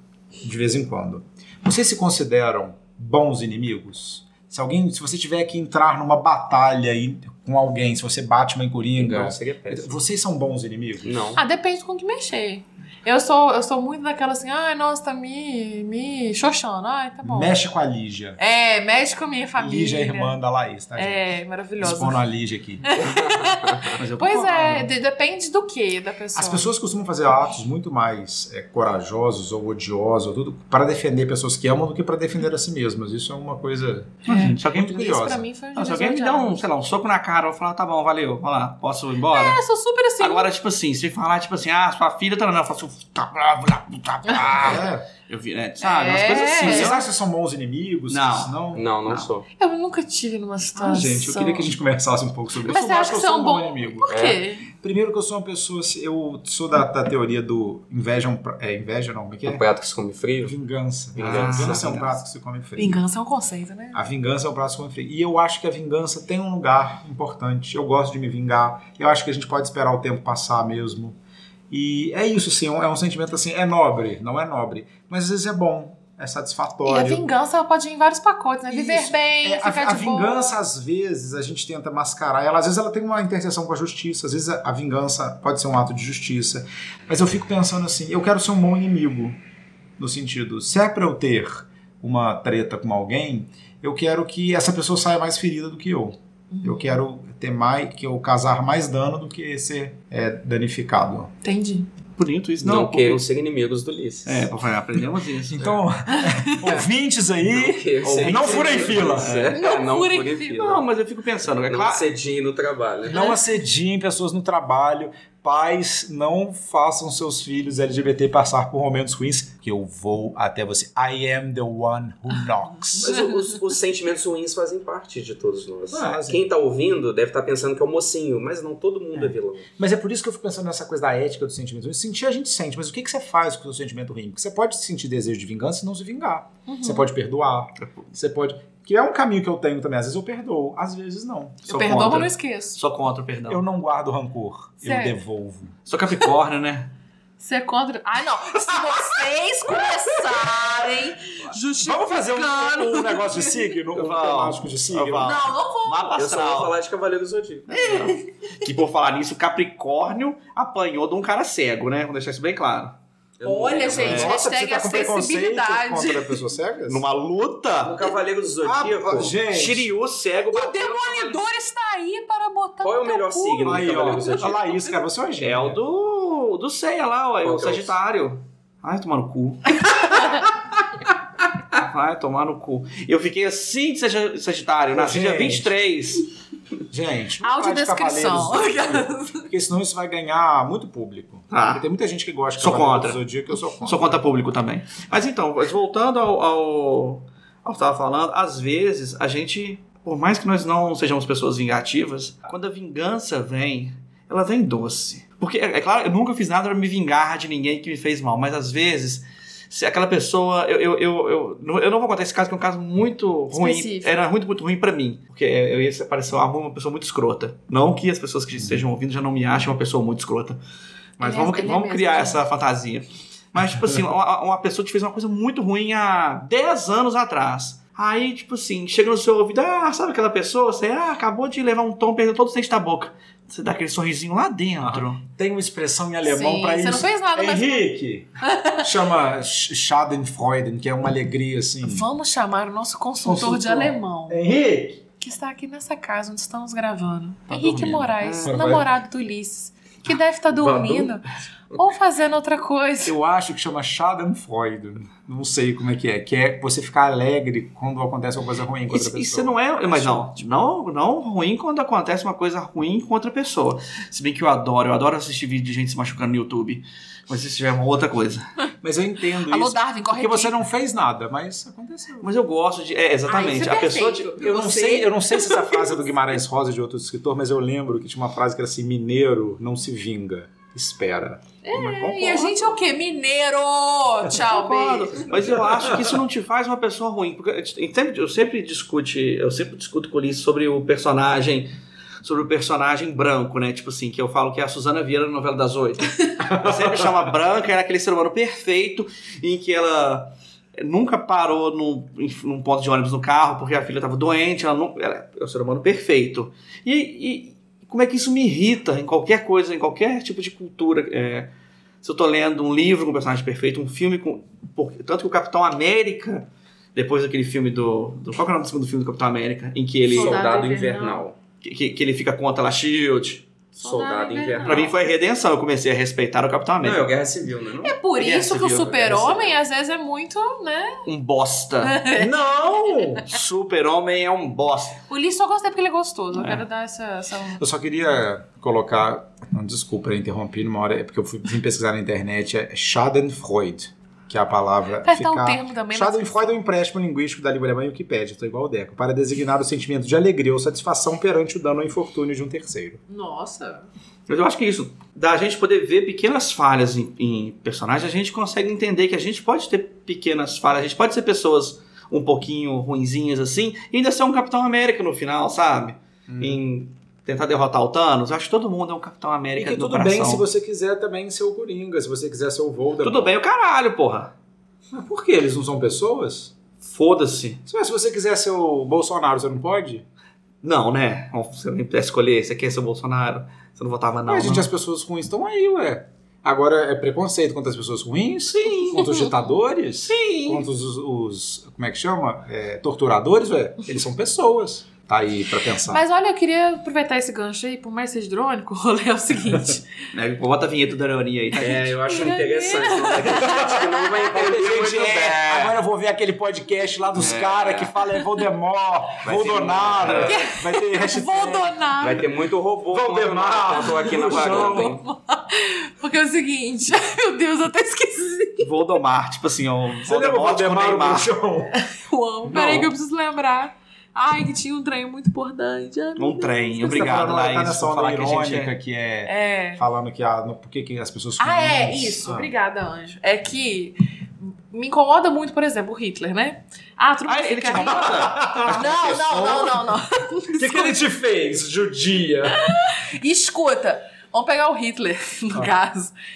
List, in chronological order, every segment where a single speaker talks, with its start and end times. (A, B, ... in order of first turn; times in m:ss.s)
0:00.4-0:11.4 A
0:09.0-0:09.9 B
0:11.0-0:11.4 B
0:11.4-0:17.5 C
0:17.2-0:18.4 A
0:18.4-0:20.3 C
0:19.6-0:22.9 A
0:20.9-0:22.2 C
0:22.8-0:26.7 C
0:23.0-0:24.0 B
0:24.0-0:24.9 D
0:26.3-0:35.4 A
0:34.3-0:34.9 D
0:34.3-0:36.6 C
0:35.7-0:39.6 D
0:39.3-0:40.5 C
0:40.2-0:47.0 D
0:44.2-0:44.7 C
0:44.4-0:45.1 A
0:45.8-0:47.0 C
0:46.3-0:48.8 A
0:48.1-0:49.3 D
0:48.7-0:49.5 B
0:49.6-0:51.7 C
0:50.8-0:51.6 D
0:50.9-0:54.2 A
0:52.6-0:54.7 C
0:54.1-0:54.4 B
0:54.7-0:59.6 A
0:59.4-1:00.5 B
1:00.4-1:03.0 A
1:01.1-1:02.2 B
1:01.2-1:02.0 D
1:02.8-1:04.0 C
1:03.9-1:11.2 A
1:11.7-1:17.3 A
1:16.8-1:20.6 C
1:18.7-1:29.4 A
1:30.0-1:41.3 A
1:36.5-1:37.0 C
1:41.4-1:41.9 C
1:42.2-1:43.2 D
1:42.6-1:44.5 B
1:44.2-1:45.8 D
1:45.5-1:49.4 A
1:46.1-1:46.8 C
1:47.4-1:50.8 B
1:48.0-1:49.6 D
1:49.5-1:50.6 C
1:50.6-1:52.1 D
1:51.4-1:53.2 B
1:53.1-2:03.2 A
1:53.1-1:53.4 C
2:02.9-2:09.7 B
2:05.9-2:06.5 A
2:09.1-2:22.3 A
2:16.7-2:17.1 C
2:17.8-2:18.0 D
2:21.7-2:22.8 C
2:21.7-2:23.6 D
2:23.5-2:25.8 A
2:24.8-2:25.2 C
2:25.9-2:26.9 D
2:27.4-2:33.7 C
2:31.8-2:35.5 A
2:33.9-2:36.7 D
2:35.2-2:36.2 C
2:36.2-2:37.7 B
2:37.7-2:42.9 D
2:43.4-2:44.3 B
2:43.4-2:46.4 C
2:43.9-2:47.0 A
2:46.9-2:48.1 D
2:47.8-2:49.3 B
2:48.6-2:49.9 A
2:49.5-2:51.4 D
2:50.5-2:53.8 C
2:52.8-2:54.9 B
2:53.6-2:55.8 A
2:55.4-3:00.0 D
2:57.4-2:58.0 B
2:59.9-3:00.4 C
3:01.7-3:06.3 D
3:04.9-3:05.7 A
3:06.9-3:14.2 A
3:07.4-3:09.5 C
3:11.5-3:11.8 D
3:12.6-3:13.2 D
3:13.8-3:40.6 D
3:33.5-3:34.2 C
3:38.6-3:38.8 A
3:41.2-3:55.2 D
3:41.2-3:42.4 C
3:54.8-4:02.1 A
3:56.2-3:57.9 C
3:58.4-3:58.8 C
4:01.8-4:04.4 C
4:03.2-4:05.0 A
4:05.2-4:13.1 C
4:07.5-4:08.9 A
4:08.2-4:08.7 D
4:10.5-4:11.2 B
4:13.0-4:20.4 A
4:18.9-4:28.4 D
4:28.8-4:32.3 A
4:29.4-4:30.5 C
4:32.2-4:34.4 D
4:33.3-4:36.0 C
4:34.4-4:42.5 A
4:41.6-4:45.3 C
4:42.1-4:42.6 D
4:44.3-4:51.7 D
4:45.7-4:46.1 A
4:52.2-5:11.5 D
4:56.5-4:56.9 A
5:12.0-5:20.4 D
5:20.0-5:21.4 B
5:20.1-5:21.2 C
5:21.6-5:23.5 D
5:23.8-5:24.9 C
5:23.8-5:24.9 B
5:24.6-5:27.1 D
5:26.8-5:29.6 B
5:27.8-5:31.0 C
5:31.0-5:32.0 D
5:31.8-5:32.3 C
5:32.2-5:33.4 A
5:33.2-5:35.0 D
5:35.1-5:37.6 C
5:36.3-5:36.6 D
5:37.6-5:53.0 A
5:45.0-5:46.6 C
5:53.1-5:53.9 C
5:54.3-6:10.4 D
6:06.3-6:06.6 A
6:09.6-6:13.3 A
6:13.0-6:14.3 D
6:14.9-6:16.5 A
6:16.8-6:17.6 D
6:17.6-6:20.0 A
6:20.6-6:24.7 D
6:24.3-6:36.0 A
6:28.5-6:29.2 D
6:29.0-6:29.4 C
6:30.1-6:30.6 D
6:35.9-6:39.9 C
6:40.1-6:41.9 D
6:41.5-6:45.8 B
6:41.6-6:44.3 C
6:43.4-6:51.7 A
6:47.1-6:47.9 D
6:49.2-6:50.3 B
6:50.0-6:50.3 D
6:50.2-6:52.3 C
6:52.0-6:55.0 B
6:52.9-6:55.0 A
6:54.0-6:58.7 C
6:58.6-7:01.3 D
7:00.0-7:01.7 A
7:01.7-7:07.0 C
7:02.4-7:02.9 D
7:06.2-7:08.7 D
7:06.8-7:12.5 A
7:09.2-7:09.8 C
7:11.4-7:14.0 C
7:14.7-7:21.0 C
7:17.3-7:19.8 D
7:17.8-7:19.4 A
7:20.6-7:22.6 A
7:22.4-7:26.1 C